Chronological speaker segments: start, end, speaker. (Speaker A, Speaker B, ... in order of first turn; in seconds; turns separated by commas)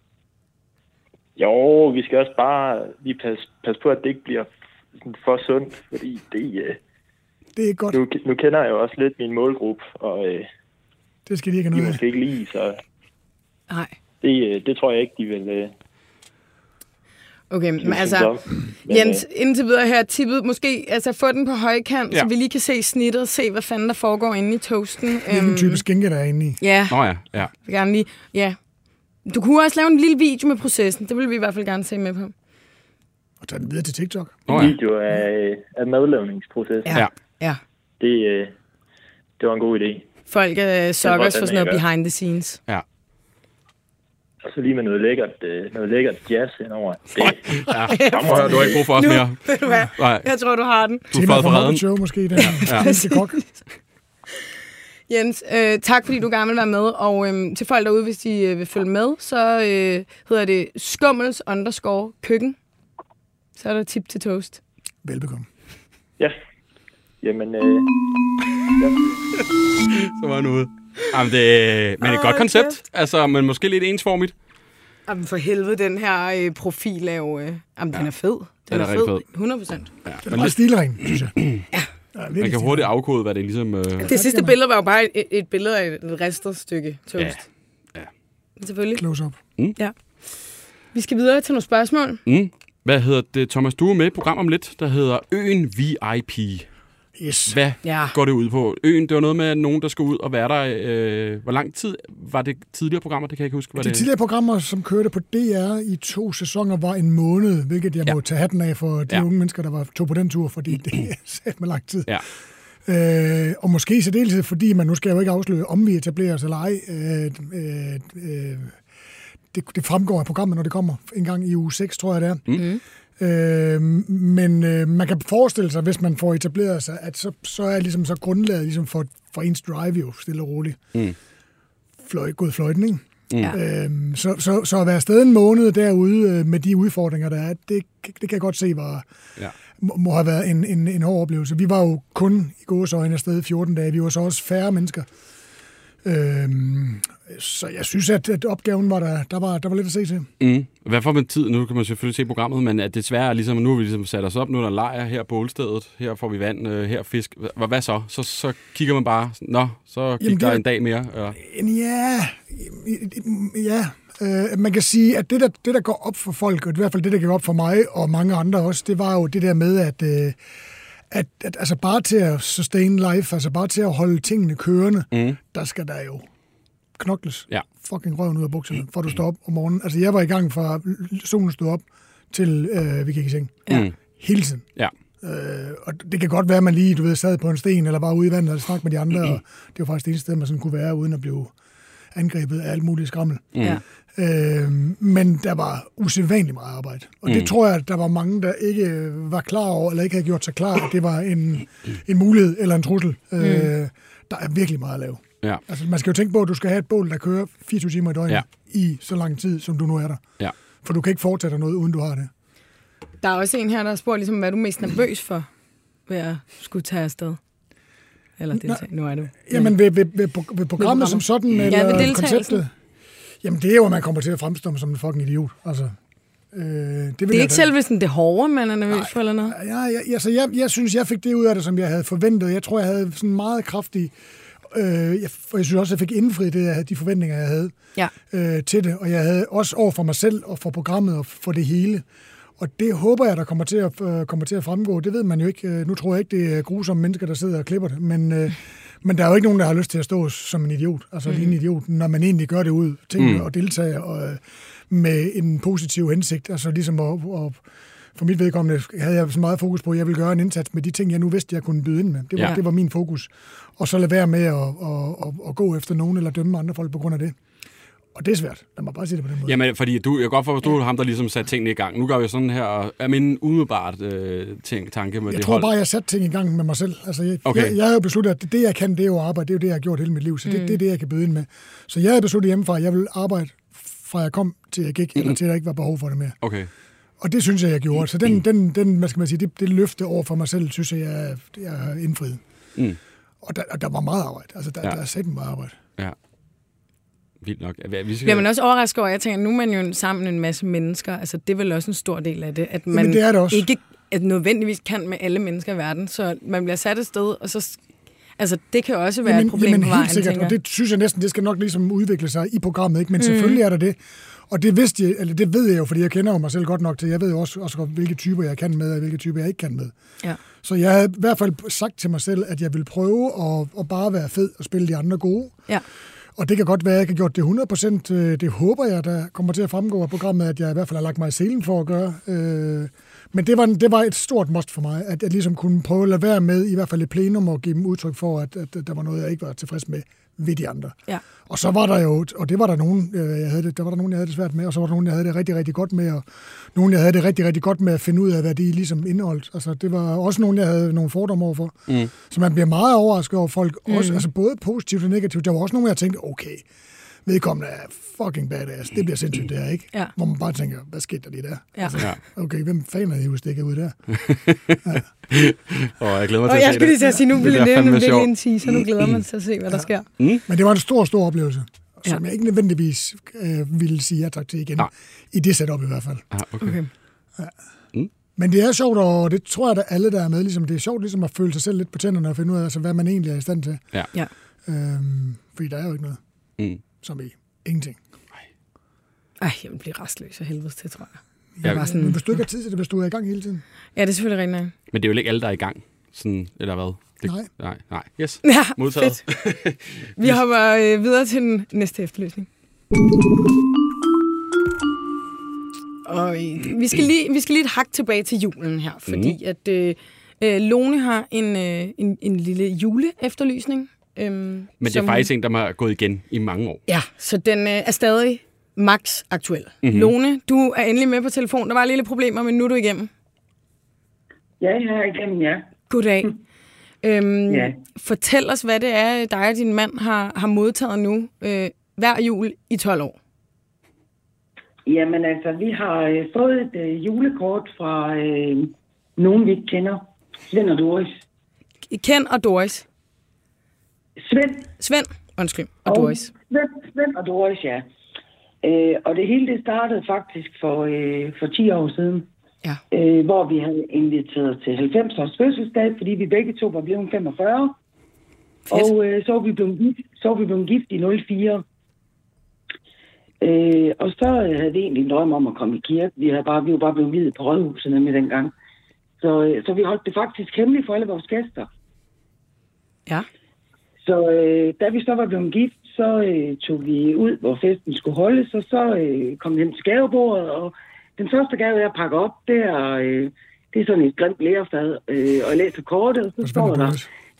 Speaker A: 1.4-4.5, Speaker A: 5.0-6.8, Speaker B: 7.6-8.0, Speaker A: 7.9-10.5, Speaker B: 11.3-12.0, Speaker A: 11.7-12.8, Speaker C: 13.7-13.9, Speaker A: 14.2-15.7, Speaker C: 17.5-18.3, Speaker A: 17.8-19.2, Speaker C: 18.9-25.8, Speaker B: 25.3-26.6, Speaker C: 26.6-27.0, Speaker D: 26.9-27.5, Speaker C: 27.6-28.6, Speaker C: 29.3-32.3, Speaker B: 33.4-34.4, Speaker D: 34.5-34.8, Speaker A: 34.5-37.0, Speaker C: 36.9-37.6, Speaker A: 38.0-38.5, Speaker A: 39.4-40.1, Speaker C: 40.3-42.6, Speaker A: 41.0-41.8, Speaker A: 44.5-48.8, Speaker D: 47.2-50.2, Speaker C: 47.9-51.1, Speaker D: 51.1-51.8, Speaker B: 51.1-53.4, Speaker C: 52.4-53.4, Speaker D: 52.4-52.9, Speaker C: 55.1-62.6, Speaker C: 63.6-64.6, Speaker B: 65.0-65.5, Speaker A: 67.2-67.9, Speaker A: 68.8-69.2, Speaker D: 69.9-74.3, Speaker C: 72.0-72.8, Speaker C: 75.1-79.9, Speaker D: 78.7-79.2, Speaker D: 80.0-80.5, Speaker B: 80.2-81.3, Speaker D: 81.1-81.6, Speaker B: 82.2-82.9, Speaker D: 82.4-84.1, Speaker C: 84.0-87.4, Speaker B: 84.1-84.5, Speaker C: 88.6-89.0, Speaker B: 89.0-89.4, Speaker C: 90.9-92.2, Speaker D: 92.3-96.7, Speaker B: 97.2-97.6, Speaker D: 97.5-104.1, Speaker C: 97.8-98.2, Speaker B: 103.8-112.2, Speaker B: 112.8-118.8, Speaker B: 119.5-122.5, Speaker C: 122.6-122.8, Speaker B: 123.2-130.8, Speaker B: 132.0-139.1, Speaker B: 139.8-145.1, Speaker B: 146.0-150.3, Speaker D: 150.4-161.4, Speaker B: 160.2-160.6, Speaker B: 161.3-170.4, Speaker B: 171.1-176.3, Speaker D: 175.1-175.4, Speaker B: 177.0-184.7, Speaker D: 183.7-183.9, Speaker B: 185.2-191.5, Speaker B: 192.1-193.6, Speaker B: 194.2-210.2, Speaker D: 197.3-197.5, Speaker C: 203.4-203.7, Speaker B: 210.8-212.3, Speaker C: 213.2-215.5, Speaker C: 216.1-217.4, Speaker C: 218.4-219.7, Speaker B: 218.5-218.8, Speaker B: 219.4-222.7, Speaker C: 220.8-222.6, Speaker B: 223.4-225.9, Speaker B: 226.5-227.7, Speaker C: 227.3-229.6, Speaker B: 228.9-237.7, Speaker B: 238.3-242.0, Speaker B: 242.6-257.6, Speaker C: 251.3-251.5, Speaker D: 253.2-253.5, Speaker B: 258.2-267.4, Speaker B: 268.1-269.6, Speaker D: 269.5-275.7, Speaker B: 275.3-286.4, Speaker D: 277.4-277.8, Speaker C: 280.5-280.8, Speaker D: 286.4-286.7, Speaker B: 287.2-292.4, Speaker B: 293.4-295.8, Speaker D: 297.4-298.5, Speaker C: 298.2-307.8, Speaker B: 302.9-303.7, Speaker C: 308.4-310.6, Speaker B: 309.2-314.0, Speaker C: 313.2-313.6, Speaker B: 314.5-319.9, Speaker B: 320.6-325.6, Speaker B: 326.4-356.6, Speaker C: 353.9-354.2, Speaker B: 357.2-364.0, Speaker D: 364.2-369.2, Speaker C: 366.5-370.1, Speaker D: 370.2-370.4, Speaker B: 370.5-376.2, Speaker D: 376.3-376.8, Speaker C: 376.6-376.9, Speaker B: 378.4-383.8, Speaker B: 384.7-386.2, Speaker B: 387.0-388.0, Speaker C: 389.4-392.2, Speaker B: 391.6-393.6, Speaker C: 394.0-394.7, Speaker D: 394.9-400.4, Speaker B: 397.2-397.5, Speaker C: 398.4-399.2, Speaker C: 400.2-402.5, Speaker C: 406.1-415.3, Speaker D: 409.1-409.4, Speaker D: 414.8-416.8, Speaker C: 416.9-423.1, Speaker D: 419.8-420.1, Speaker E: 424.6-425.7, Speaker C: 425.9-426.3, Speaker C: 427.0-433.2, Speaker E: 427.5-427.8, Speaker E: 434.9-441.2, Speaker C: 441.9-442.9, Speaker E: 444.2-444.7, Speaker C: 444.8-446.3, Speaker E: 445.9-447.9, Speaker E: 448.6-452.3, Speaker E: 452.9-457.8, Speaker E: 458.7-461.6, Speaker E: 463.4-468.5, Speaker E: 469.2-471.7, Speaker E: 474.0-487.0, Speaker B: 486.4-487.1